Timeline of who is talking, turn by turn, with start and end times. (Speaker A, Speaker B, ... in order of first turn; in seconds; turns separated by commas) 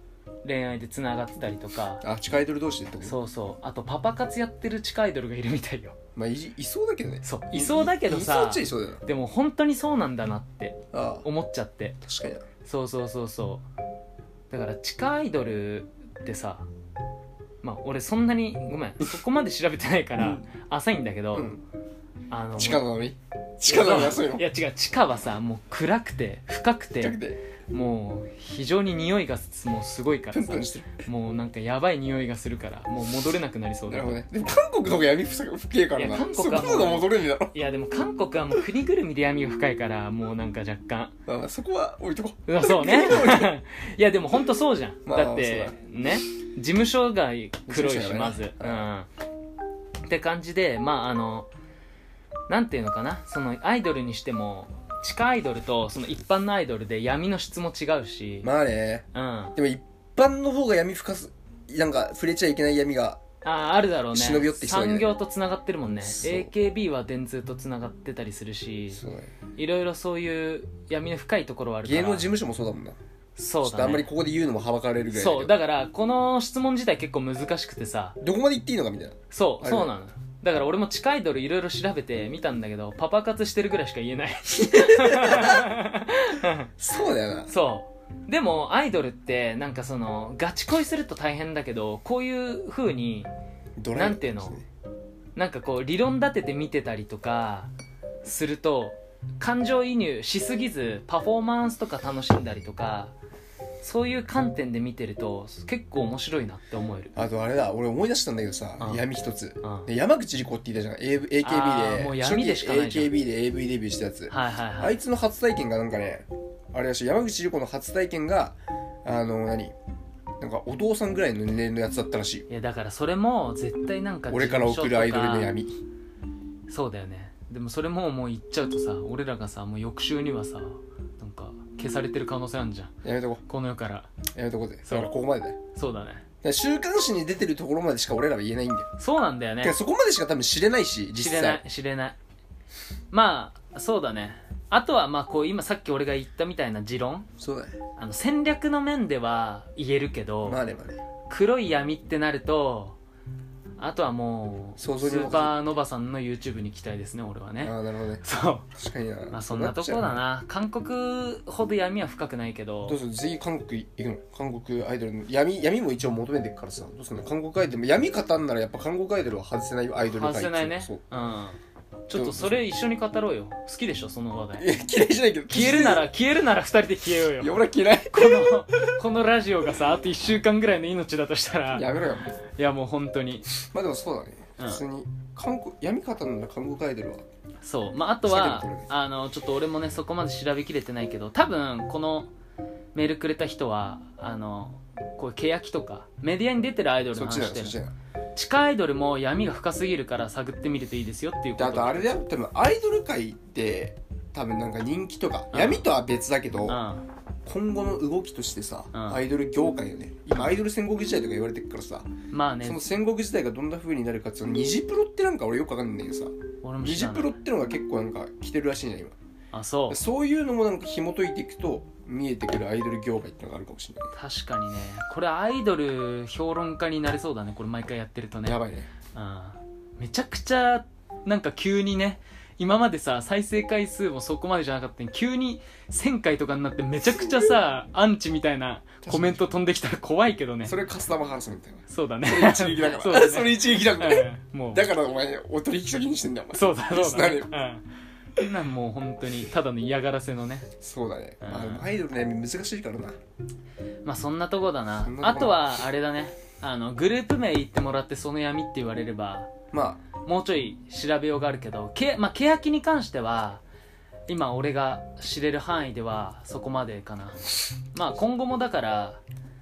Speaker A: 0.4-2.0, Speaker B: 2.0-3.2, Speaker A: 3.0-5.9, Speaker B: 6.2-9.0, Speaker A: 7.2-12.0, Speaker B: 10.9-11.2, Speaker B: 12.0-12.4, Speaker A: 12.6-13.6, Speaker A: 14.5-16.6, Speaker A: 17.6-21.5, Speaker B: 20.2-20.4, Speaker B: 21.3-21.6, Speaker A: 22.3-22.8, Speaker B: 22.6-24.4, Speaker A: 23.7-34.2, Speaker B: 27.0-27.4, Speaker B: 30.3-31.0, Speaker B: 33.9-37.5, Speaker A: 35.9-41.1, Speaker B: 41.3-43.5, Speaker A: 42.5-49.1, Speaker B: 45.0-45.8, Speaker B: 47.7-48.9, Speaker A: 50.1-51.5, Speaker A: 52.5-58.5, Speaker B: 58.4-63.2, Speaker A: 59.1-59.5, Speaker A: 63.4-69.0, Speaker B: 64.1-65.1, Speaker B: 66.0-66.5, Speaker B: 68.9-69.3, Speaker A: 69.5-72.3, Speaker B: 71.8-73.0, Speaker A: 73.3-74.1, Speaker B: 73.6-75.5, Speaker A: 75.1-78.2, Speaker B: 78.2-79.9, Speaker A: 79.3-86.7, Speaker B: 84.6-85.7, Speaker B: 86.8-87.5, Speaker A: 87.5-93.3, Speaker B: 93.8-94.6, Speaker A: 93.9-94.6, Speaker A: 95.3-97.7, Speaker A: 98.2-103.1, Speaker A: 103.8-107.1, Speaker B: 107.1-119.7, Speaker A: 109.6-109.9, Speaker A: 111.4-113.1, Speaker A: 114.3-115.0, Speaker B: 120.4-122.5, Speaker A: 122.5-125.5, Speaker B: 124.3-125.8, Speaker A: 126.7-134.1, Speaker B: 133.0-133.4, Speaker B: 134.3-135.6, Speaker A: 134.9-135.2, Speaker A: 135.7-136.2, Speaker B: 136.4-138.9, Speaker A: 139.0-139.8, Speaker B: 139.6-141.6, Speaker A: 141.1-142.2, Speaker A: 143.1-147.3, Speaker B: 147.4-147.7, Speaker A: 148.0-150.6, Speaker B: 150.4-151.0, Speaker A: 151.3-153.0, Speaker A: 153.8-158.7, Speaker B: 154.8-155.6, Speaker B: 157.6-158.2, Speaker B: 158.7-160.2, Speaker A: 159.3-163.0, Speaker B: 162.9-171.0, Speaker A: 170.1-174.7, Speaker B: 172.1-172.6, Speaker B: 174.6-176.1, Speaker A: 175.5-181.9, Speaker B: 177.4-178.9, Speaker B: 181.7-182.3, Speaker A: 182.4-183.5, Speaker B: 183.6-187.2, Speaker A: 184.6-184.8, Speaker A: 187.6-192.3, Speaker B: 188.2-188.9, Speaker A: 192.9-197.8, Speaker B: 197.1-197.9, Speaker A: 198.3-202.1, Speaker B: 201.6-206.8, Speaker A: 205.5-205.9, Speaker A: 206.7-207.0, Speaker B: 207.4-212.1, Speaker A: 208.9-209.2, Speaker A: 212.3-212.8, Speaker B: 212.6-219.1, Speaker A: 216.6-217.3, Speaker A: 219.5-220.0, Speaker B: 219.9-224.1, Speaker A: 224.1-228.6, Speaker B: 228.4-228.9, Speaker A: 229.1-240.8, Speaker B: 237.2-237.5, Speaker B: 239.0-239.4, Speaker B: 240.6-247.5, Speaker A: 241.9-244.9, Speaker A: 246.5-247.8, Speaker A: 248.3-250.7, Speaker B: 250.8-253.2, Speaker A: 251.4-251.9, Speaker A: 254.0-259.5, Speaker B: 255.0-255.6, Speaker B: 259.7-260.0, Speaker A: 260.2-263.6, Speaker A: 264.3-267.4, Speaker A: 267.9-269.2